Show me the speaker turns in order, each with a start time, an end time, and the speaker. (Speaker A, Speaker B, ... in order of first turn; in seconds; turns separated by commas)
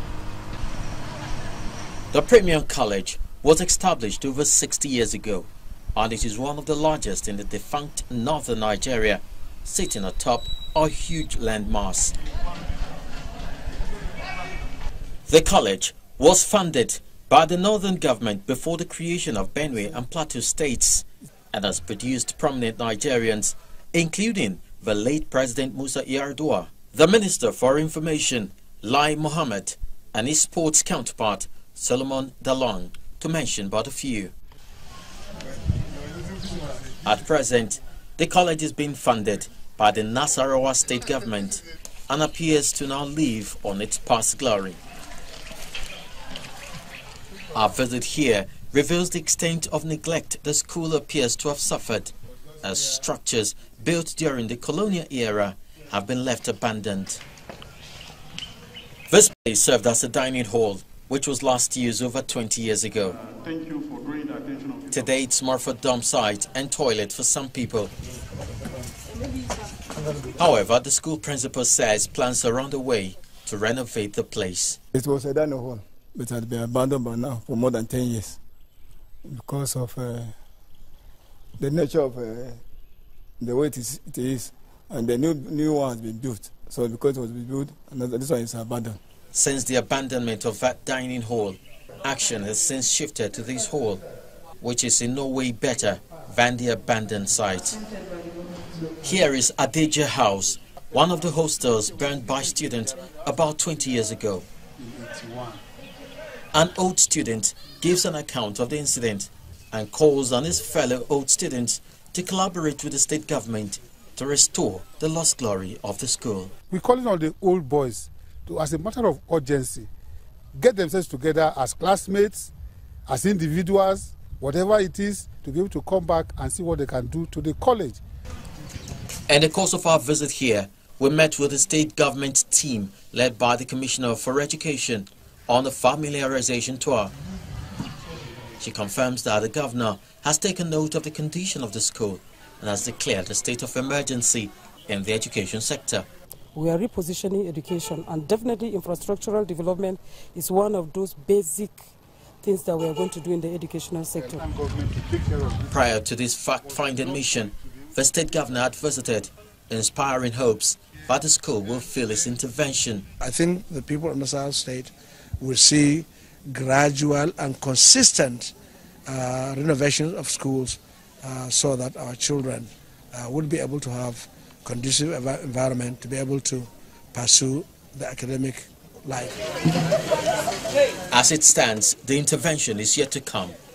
Speaker A: 2.1-12.2, Speaker A: 15.3-34.3, Speaker A: 37.0-44.8, Speaker A: 47.5-57.2, Speaker A: 59.1-63.2, Speaker B: 63.2-64.9, Speaker A: 64.9-67.9, Speaker A: 70.2-74.8, Speaker C: 74.9-78.4, Speaker C: 79.2-80.3, Speaker C: 81.6-82.6, Speaker C: 83.4-89.0, Speaker A: 89.3-94.0, Speaker A: 94.6-97.8, Speaker A: 99.0-104.5, Speaker D: 104.8-105.6, Speaker A: 106.5-116.5, Speaker D: 116.7-119.9, Speaker D: 120.5-122.5, Speaker D: 123.1-128.0, Speaker A: 129.3-137.1, Speaker A: 138.6-146.1, Speaker E: 146.5-151.9, Speaker E: 152.4-154.4, Speaker D: 154.3-155.7, Speaker A: 155.7-163.1, Speaker B: 163.2-168.5, Speaker B: 169.1-179.4, Speaker A: 181.1-183.6